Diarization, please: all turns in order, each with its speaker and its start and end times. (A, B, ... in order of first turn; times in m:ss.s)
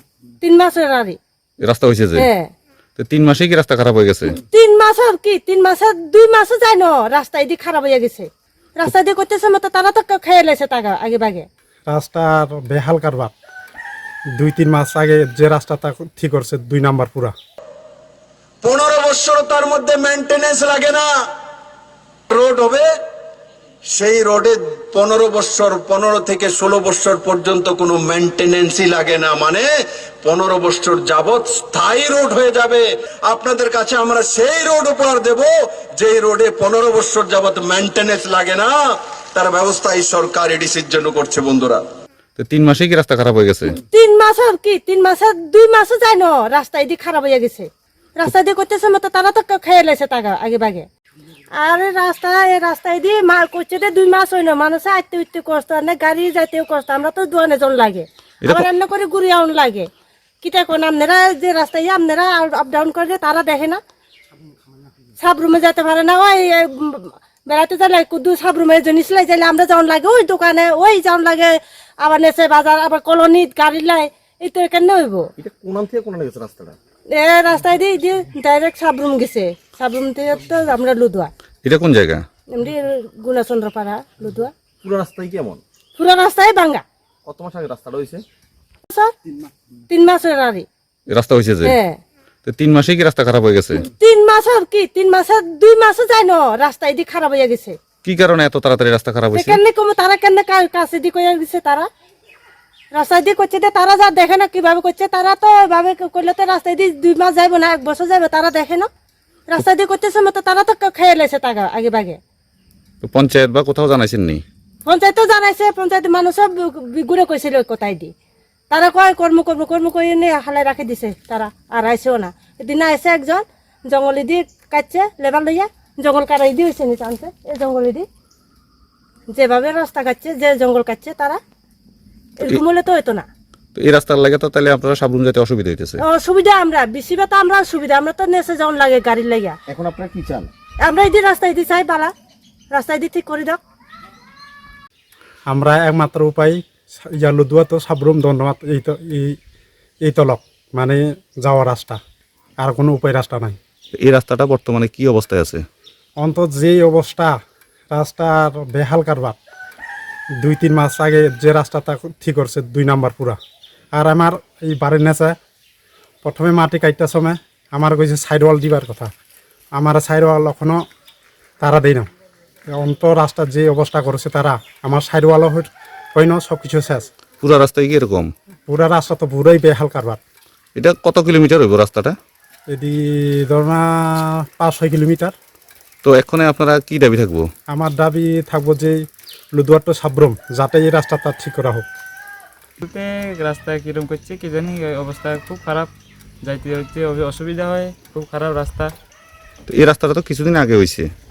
0:00.4-0:01.2 A
0:01.6-0:02.3 B
0:02.2-0:02.5 A
0:03.0-0:04.4 B
0:04.4-0:11.5 A
0:11.9-0:13.3 C
0:14.4-0:17.3 C
0:18.6-0:21.1 D
0:22.3-0:22.9 D
0:23.9-0:29.7 D
0:30.2-0:38.7 D
0:39.3-0:41.8 D
0:42.4-0:43.8 B
0:43.8-0:50.9 A
0:51.6-0:59.9 A
1:00.4-1:03.8 A
1:05.2-1:15.3 A
1:15.4-1:16.8 E
1:17.1-1:21.3 A
1:21.6-1:22.2 B
1:22.5-1:24.5 A
1:24.8-1:25.6 E
1:26.0-1:26.8 A
1:27.2-1:28.2 E
1:28.9-1:29.1 A
1:29.9-1:30.6 A
1:31.1-1:31.8 B
1:31.6-1:32.0 A
1:32.4-1:33.8 B
1:33.8-1:37.8 A
1:38.0-1:39.6 B
1:39.3-1:41.9 A
1:42.9-1:48.9 A
1:49.5-1:52.2 A
1:53.0-1:54.4 B
1:54.8-1:58.1 A
1:58.7-2:08.1 A
2:09.3-2:11.4 A
2:12.4-2:13.3 A
2:13.7-2:16.0 B
2:16.0-2:19.6 A
2:19.7-2:20.5 E
2:20.8-2:22.1 A
2:22.7-2:23.6 A
2:25.5-2:26.6 C
2:27.1-2:29.4 C
2:30.0-2:32.0 C
2:32.6-2:33.6 C
2:34.0-2:35.6 B
2:36.2-2:37.4 C
2:37.9-2:39.4 C
2:40.4-2:43.4 C
2:44.0-2:45.4 C
2:46.2-2:49.1 C
2:49.8-2:50.8 C
2:51.6-2:52.1 C
2:52.7-2:57.1 C
2:57.4-2:58.3 B
2:58.7-3:00.2 C
3:00.8-3:02.2 B
3:02.7-3:05.3 C
3:06.0-3:07.4 B
3:07.7-3:09.0 C
3:09.6-3:11.8 C
3:12.8-3:15.9 F
3:16.4-3:18.9 F
3:19.7-3:21.1 B